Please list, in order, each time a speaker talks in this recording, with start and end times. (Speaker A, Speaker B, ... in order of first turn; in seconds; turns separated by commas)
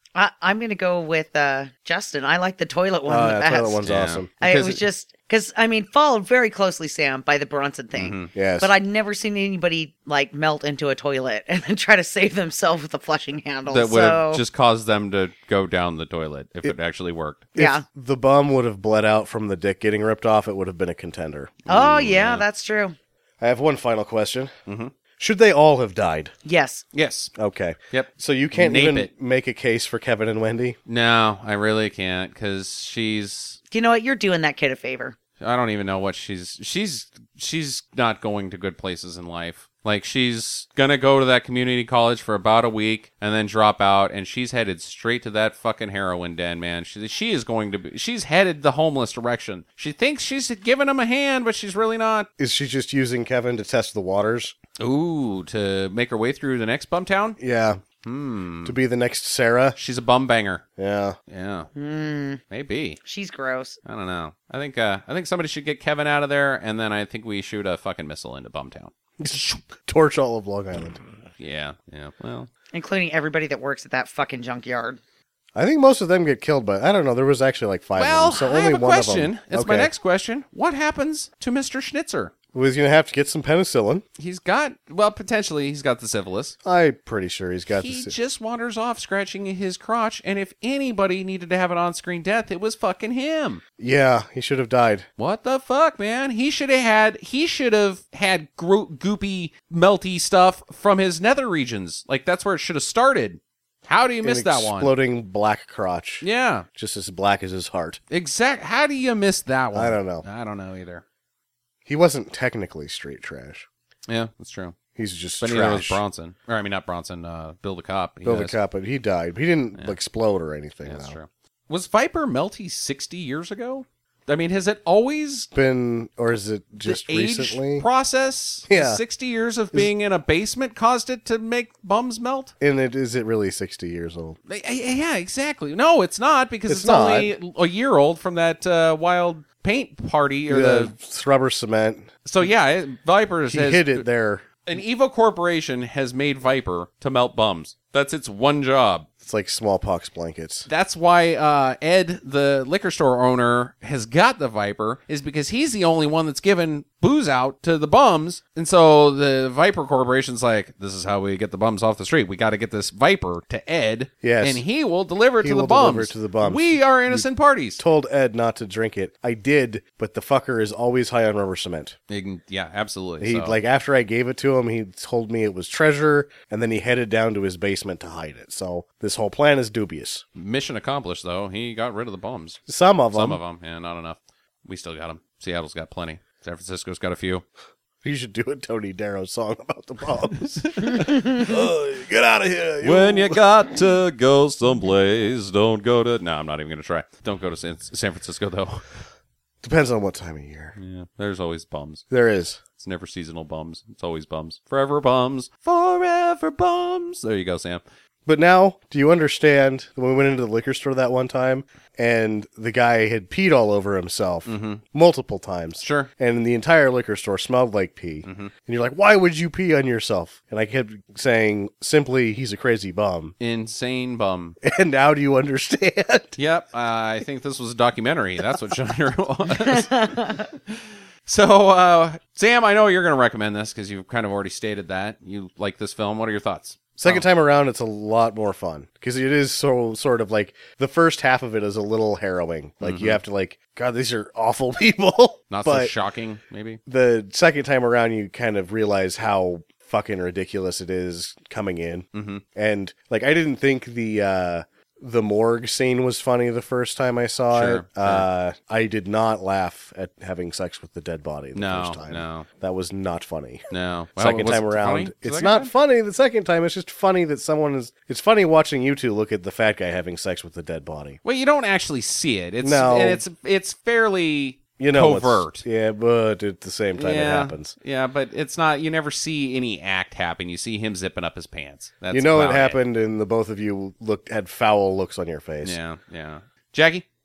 Speaker A: 0.1-3.8, Speaker B: 3.1-4.8, Speaker C: 3.8-4.3, Speaker A: 4.4-14.4, Speaker C: 7.9-8.3, Speaker B: 8.3-8.7, Speaker C: 13.7-17.5, Speaker A: 17.6-17.8, Speaker B: 17.6-21.6, Speaker C: 21.7-22.4, Speaker A: 21.7-23.0, Speaker B: 23.4-24.5, Speaker C: 24.7-24.9, Speaker B: 25.2-26.3, Speaker A: 26.4-26.9, Speaker C: 26.9-27.3, Speaker B: 27.4-30.8, Speaker C: 27.9-29.1, Speaker C: 30.9-33.6, Speaker A: 33.7-35.2, Speaker C: 35.4-52.3, Speaker B: 52.4-54.5, Speaker C: 54.8-57.4, Speaker B: 57.4-57.8, Speaker C: 58.0-58.8, Speaker B: 58.6-59.8, Speaker C: 59.8-60.6, Speaker B: 60.8-61.2, Speaker C: 61.3-61.7, Speaker A: 61.8-62.4, Speaker C: 62.5-63.0, Speaker A: 63.0-63.8, Speaker C: 63.9-68.9, Speaker B: 69.2-71.0, Speaker C: 71.4-72.5, Speaker A: 72.7-75.0, Speaker B: 75.5-79.9, Speaker C: 78.0-82.3, Speaker B: 82.5-84.0, Speaker C: 84.2-86.6, Speaker B: 86.7-88.2, Speaker C: 87.7-93.6, Speaker B: 93.8-95.1, Speaker C: 95.2-104.9, Speaker B: 104.2-108.0, Speaker C: 106.2-106.7, Speaker C: 108.1-111.0, Speaker B: 109.7-110.2, Speaker B: 111.8-113.7, Speaker C: 114.1-114.8, Speaker B: 115.0-116.0, Speaker C: 115.4-118.6, Speaker B: 118.2-121.2, Speaker C: 120.8-125.5, Speaker B: 125.5-127.9, Speaker C: 126.8-132.5, Speaker B: 128.7-129.0, Speaker B: 132.6-134.4, Speaker C: 134.5-140.9, Speaker B: 136.7-137.3, Speaker B: 140.5-142.1, Speaker C: 142.2-144.1, Speaker B: 143.5-144.4, Speaker C: 144.7-149.1, Speaker B: 149.2-150.7, Speaker C: 150.7-167.8, Speaker B: 164.2-164.6, Speaker B: 165.4-172.0, Speaker C: 172.1-173.6, Speaker B: 173.2-180.2, Speaker C: 180.4-182.6, Speaker B: 182.7-183.4, Speaker C: 183.1-187.4, Speaker B: 188.0-193.4, Speaker C: 190.6-191.4, Speaker C: 192.8-198.8, Speaker B: 199.6-200.8, Speaker C: 200.8-202.0, Speaker B: 202.1-202.6, Speaker C: 202.8-207.8, Speaker B: 208.3-223.3, Speaker C: 214.5-214.8, Speaker C: 215.8-216.1, Speaker C: 218.2-218.5, Speaker C: 223.4-224.6, Speaker B: 224.6-226.4, Speaker C: 226.4-237.2, Speaker A: 229.6-230.5, Speaker B: 237.0-245.9, Speaker C: 242.8-243.2, Speaker C: 245.5-246.8, Speaker B: 246.9-263.6, Speaker C: 252.1-252.4, Speaker C: 257.5-258.3, Speaker C: 261.5-262.5, Speaker C: 263.7-265.7, Speaker B: 264.2-271.2, Speaker C: 271.2-275.6, Speaker B: 272.6-273.2, Speaker B: 274.8-277.8, Speaker C: 277.0-282.8, Speaker B: 282.1-285.8, Speaker C: 285.6-287.1